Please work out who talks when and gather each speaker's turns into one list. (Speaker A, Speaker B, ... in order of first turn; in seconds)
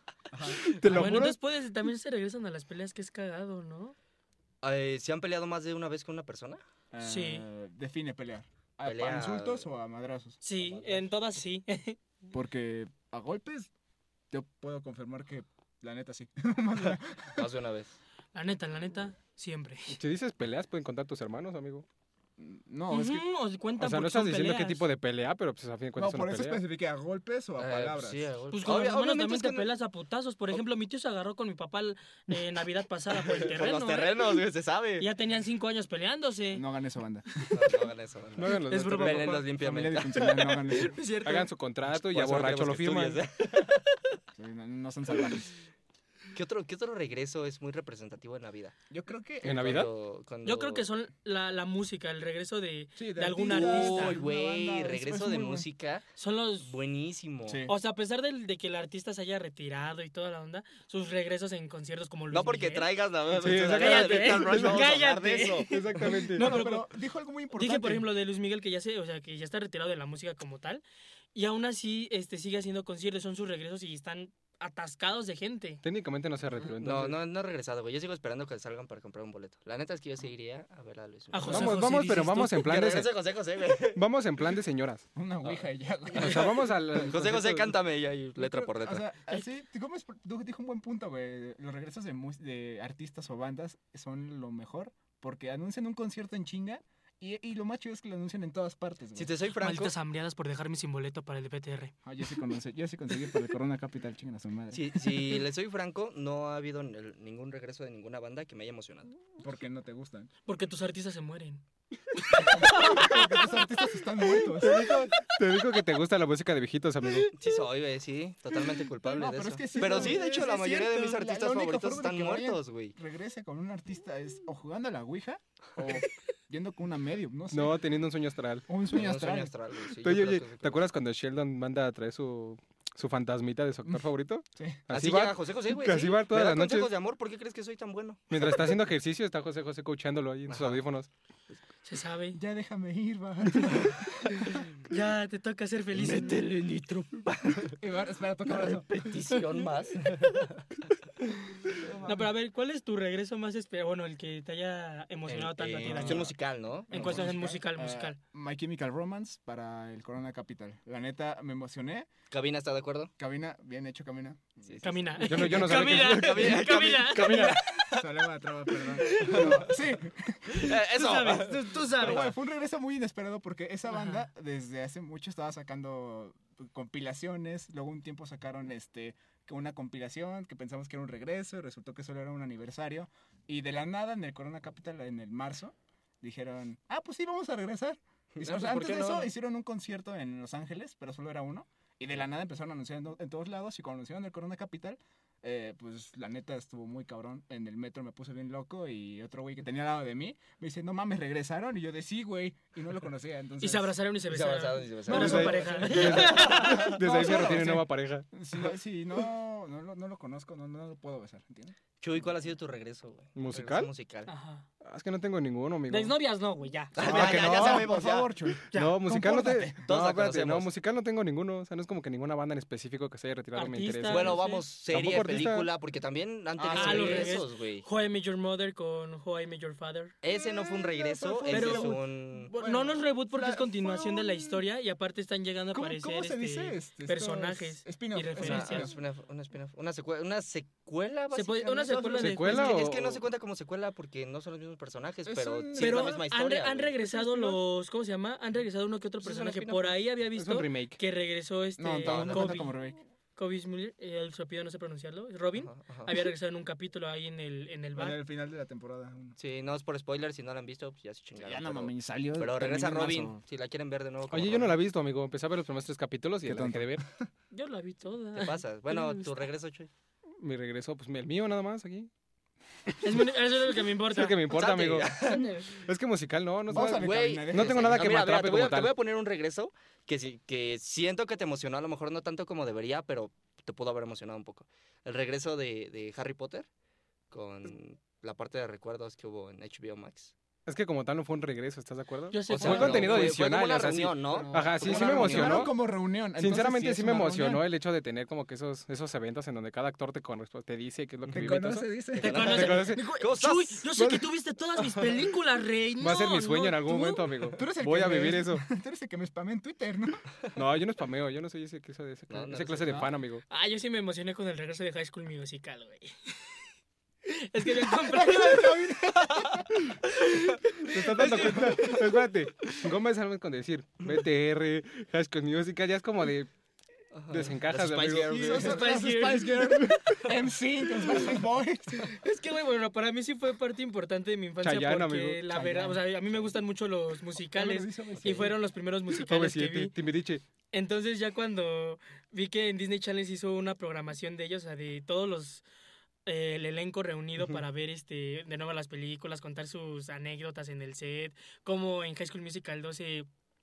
Speaker A: 0.3-0.7, 6.9-10.4, 12.3-13.7, 14.3-17.5, 22.4-23.2, 25.9-28.2, 36.5-37.8, 39.6-41.0, 44.4-45.5, 48.9-49.8, 53.0-55.7, 57.5-57.7, 66.2-68.1, 85.1-86.5, 88.4-99.3, 102.0-105.4, 109.4-110.3, 112.4-114.8, 119.0-127.8, 128.7-129.5, 133.8-134.8, 142.3-144.6, 147.8-149.1, 151.8-152.3, 155.8-156.3, 156.9-162.1, 163.2-165.3, 167.9-170.7, 172.0-203.9, 205.1-212.3, 217.0-219.8, 226.6-227.4, 230.2-234.6, 235.7-239.0, 245.2-246.2, 247.1-247.6, 251.8-253.0, 257.9-259.4, 261.4-263.4, 266.4-267.3, 276.7-278.1, 292.6-293.3, 294.3-297.6, 301.3-303.2, 307.6-310.3, 317.8-319.8, 321.1-321.9, 328.3-332.1, 335.5-336.5, 337.4-338.6
Speaker B: 0.6-1.1, 4.6-6.6, 8.8-9.7, 10.6-11.1, 17.4-17.9, 27.6-29.7, 33.2-35.1, 37.5-44.0, 46.3-48.7, 49.5-50.9, 53.5-56.0, 56.6-57.6, 62.3-65.8, 76.8-81.9, 82.5-84.0, 85.4-89.0, 99.1-99.9, 104.7-109.1, 117.3-122.9, 128.9-130.9, 134.9-138.8, 140.5-140.8, 145.9-147.8, 148.4-150.9, 155.3-157.3, 162.3-163.1, 164.7-168.1, 169.0-169.7, 170.5-172.3, 188.3-189.3, 204.3-207.5, 212.0-214.3, 216.9-218.3, 219.8-220.7, 224.1-227.8, 230.2-232.5, 238.4-246.9, 249.2-250.0, 252.0-252.7, 255.5-256.1, 259.4-264.8, 268.4-269.9, 274.5-275.5, 276.7-286.7, 287.3-290.3, 292.5-295.7, 301.2-301.5, 302.2-303.9, 312.3-313.1, 319.3-319.6, 321.7-321.9, 327.1-328.8
Speaker C: 0.7-1.4, 19.9-21.9, 23.8-26.6, 38.3-39.4, 41.2-43.2, 49.4-49.9, 63.4-64.9, 65.7-66.6, 75.8-77.2, 81.5-83.1, 83.9-85.0, 86.1-87.8, 114.6-117.3, 127.5-128.6, 130.0-136.9, 138.3-141.1, 165.2-167.6, 205.1-208.3, 213.3-213.9, 214.8-216.1, 217.0-217.9, 218.7-224.4, 224.9-225.7, 242.2-243.2, 250.3-251.0, 264.3-267.0, 270.4-272.1, 274.1-275.1, 275.7-278.9, 290.6-295.7, 296.4-303.0, 306.0-308.6, 310.5-313.4, 320.9-326.5, 327.3-328.5, 334.6-335.4, 339.1-340.4
Speaker D: 0.8-3.9, 7.0-7.4, 10.4-12.0, 18.3-19.9, 22.9-24.8, 28.5-34.3, 35.0-36.6, 38.5-39.5, 50.4-54.2, 56.2-56.7, 57.7-62.9, 63.6-66.9, 67.5-70.8, 71.3-75.8, 81.3-82.6, 99.5-101.9, 110.5-111.6, 112.1-115.2, 119.8-120.1, 141.8-142.4, 144.4-146.4, 152.0-156.3, 156.9-158.2, 164.8-167.9, 169.1-169.6, 170.5-172.3, 173.9-174.3, 203.6-206.9, 214.2-214.7, 215.9-216.9, 218.7-219.0, 223.5-224.6, 226.7-230.1, 231.5-238.9, 241.3-242.8, 245.8-252.7, 253.3-258.2, 267.5-269.4, 273.0-274.4, 275.2-275.7, 292.3-293.2, 302.2-307.3, 313.5-316.3, 317.2-318.8, 320.1-321.9, 328.6-329.8, 332.1-339.9, 340.7-345.6, 346.2-353.3